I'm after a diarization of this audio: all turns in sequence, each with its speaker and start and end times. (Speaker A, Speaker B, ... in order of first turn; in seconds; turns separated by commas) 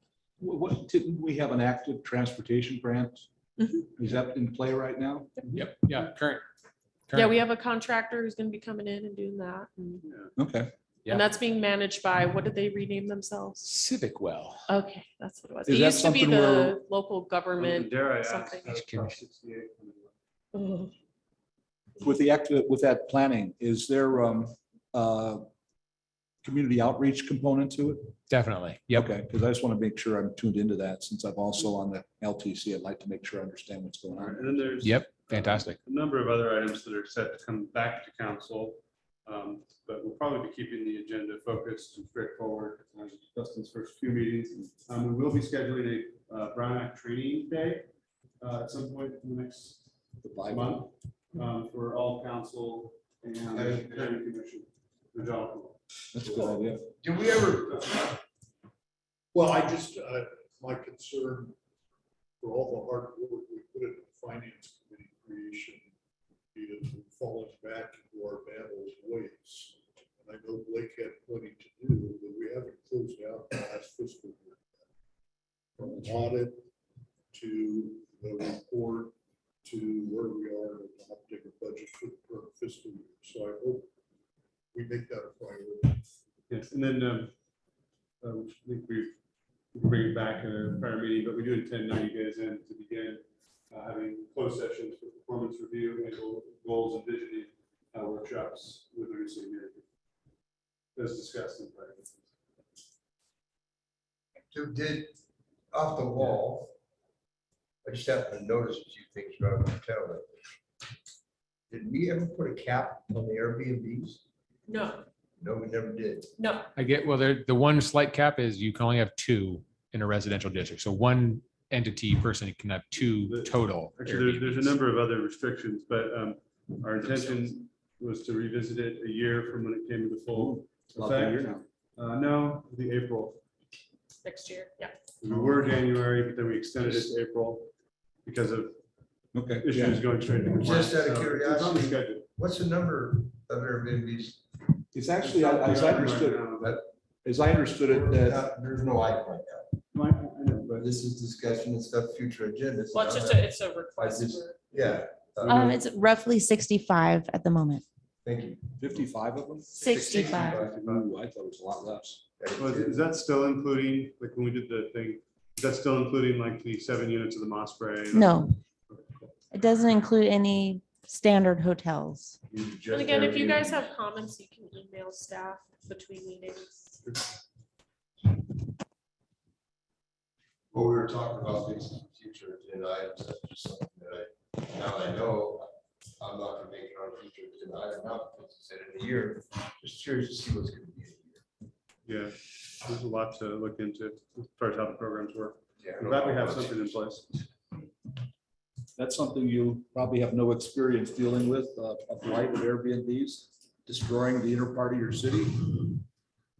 Speaker A: 0.4-3.3, Speaker B: 3.6-3.9, Speaker A: 4.0-5.3, Speaker C: 5.5-6.4, Speaker C: 7.1-7.3, Speaker B: 7.1-10.1, Speaker D: 10.0-10.3, Speaker A: 10.4-10.7, Speaker B: 11.1-13.7, Speaker C: 13.6-14.6, Speaker B: 14.7-18.8, Speaker A: 15.7-16.8, Speaker D: 17.6-20.1, Speaker C: 18.6-19.2, Speaker B: 20.5-20.9, Speaker A: 22.0-25.5, Speaker A: 26.4-28.1, Speaker C: 28.3-29.1, Speaker A: 28.9-34.6, Speaker D: 34.1-47.9, Speaker C: 34.8-35.8, Speaker D: 48.4-49.9, Speaker A: 50.2-50.8, Speaker D: 50.4-55.8, Speaker E: 53.5-54.2, Speaker A: 56.1-56.9, Speaker E: 56.2-58.2, Speaker F: 59.3-61.6, Speaker F: 62.4-65.9, Speaker F: 66.5-74.8, Speaker F: 75.8-76.7, Speaker F: 77.3-83.9, Speaker F: 84.7-86.0, Speaker D: 86.5-87.3, Speaker D: 88.2-89.2, Speaker D: 89.7-99.8, Speaker D: 101.0-102.2, Speaker E: 104.5-105.2, Speaker E: 105.7-106.7, Speaker E: 107.8-110.3, Speaker E: 111.7-114.2, Speaker B: 114.7-115.1, Speaker E: 115.4-116.3, Speaker B: 116.4-116.7, Speaker C: 116.8-124.8, Speaker D: 123.2-133.4, Speaker C: 127.1-127.4, Speaker A: 130.3-131.7, Speaker B: 134.2-135.0, Speaker D: 135.2-137.7, Speaker D: 138.2-138.8, Speaker A: 139.3-140.0, Speaker D: 139.6-142.3, Speaker E: 140.5-144.4, Speaker A: 144.9-148.4, Speaker D: 145.2-146.8, Speaker E: 147.8-149.7, Speaker D: 149.9-150.9, Speaker E: 150.7-155.8, Speaker B: 152.9-154.6, Speaker G: 155.5-157.8, Speaker E: 158.2-158.7, Speaker A: 158.8-162.2, Speaker B: 159.8-160.3, Speaker D: 159.8-161.1, Speaker G: 159.9-160.5, Speaker E: 160.0-160.7, Speaker E: 162.4-163.1, Speaker D: 162.6-169.3, Speaker G: 168.1-168.5, Speaker G: 169.5-172.4, Speaker E: 172.5-173.8, Speaker B: 172.9-177.0, Speaker E: 180.7-191.4, Speaker D: 192.1-197.3, Speaker E: 195.8-196.9, Speaker A: 199.0-205.9